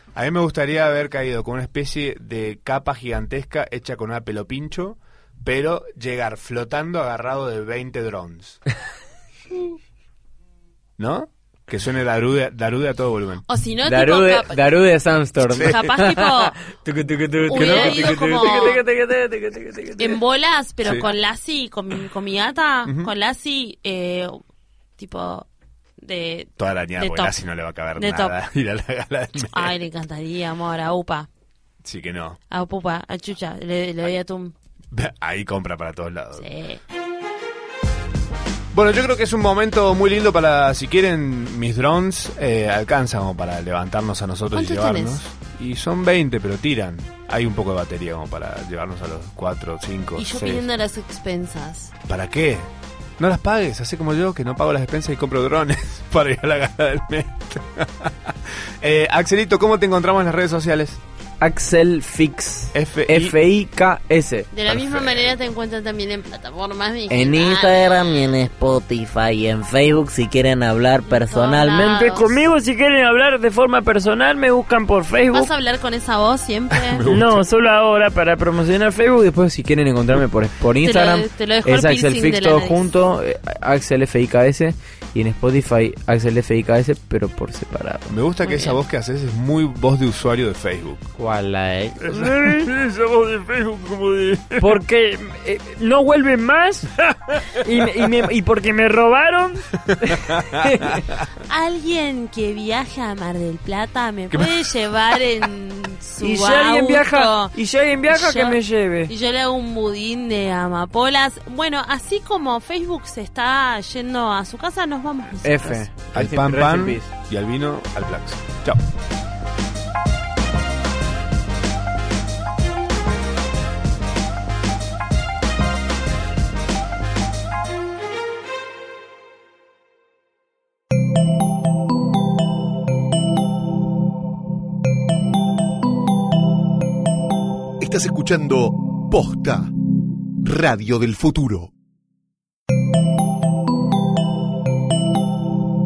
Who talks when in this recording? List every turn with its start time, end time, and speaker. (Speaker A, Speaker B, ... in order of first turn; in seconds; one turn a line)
Speaker A: 0.1-8.6
Speaker A: 11.0-13.4
Speaker B: 13.5-14.6
Speaker C: 13.9-20.2
Speaker A: 15.4-15.8
Speaker B: 15.6-16.6
Speaker B: 17.5-18.8
Speaker A: 17.5-18.7
Speaker B: 20.0-24.4
Speaker A: 20.8-21.1
Speaker A: 22.9-23.1
Speaker B: 25.0-25.5
Speaker B: 26.0-27.4
Speaker A: 26.6-29.8
Speaker B: 28.0-28.4
Speaker B: 29.4-31.3
Speaker A: 31.8-32.4
Speaker B: 32.5-34.5
Speaker A: 34.9-36.5
Speaker B: 36.4-36.8
Speaker A: 38.7-50.7
Speaker B: 44.5-45.2
Speaker B: 50.2-51.9
Speaker A: 52.1-61.0
Speaker C: 61.4-64.5
Speaker A: 62.7-63.4
Speaker B: 64.5-68.2
Speaker A: 64.7-65.3
Speaker D: 67.2-71.9
Speaker B: 71.1-72.3
Speaker E: 71.7-75.5
Speaker B: 75.3-77.0
Speaker A: 76.7-77.4
Speaker E: 77.1-79.2
Speaker C: 79.1-88.1
Speaker B: 80.8-82.9
Speaker A: 88.1-91.1
Speaker B: 88.4-88.8
Speaker C: 91.2-92.0
Speaker E: 92.0-100.3
Speaker A: 99.9-101.2
Speaker B: 101.4-107.5
Speaker A: 104.3-104.7
Speaker E: 106.2-109.1
Speaker B: 108.1-115.9
Speaker C: 115.4-117.1
Speaker A: 116.1-118.8
Speaker F: 137.8-139.7
Speaker F: 140.4-141.7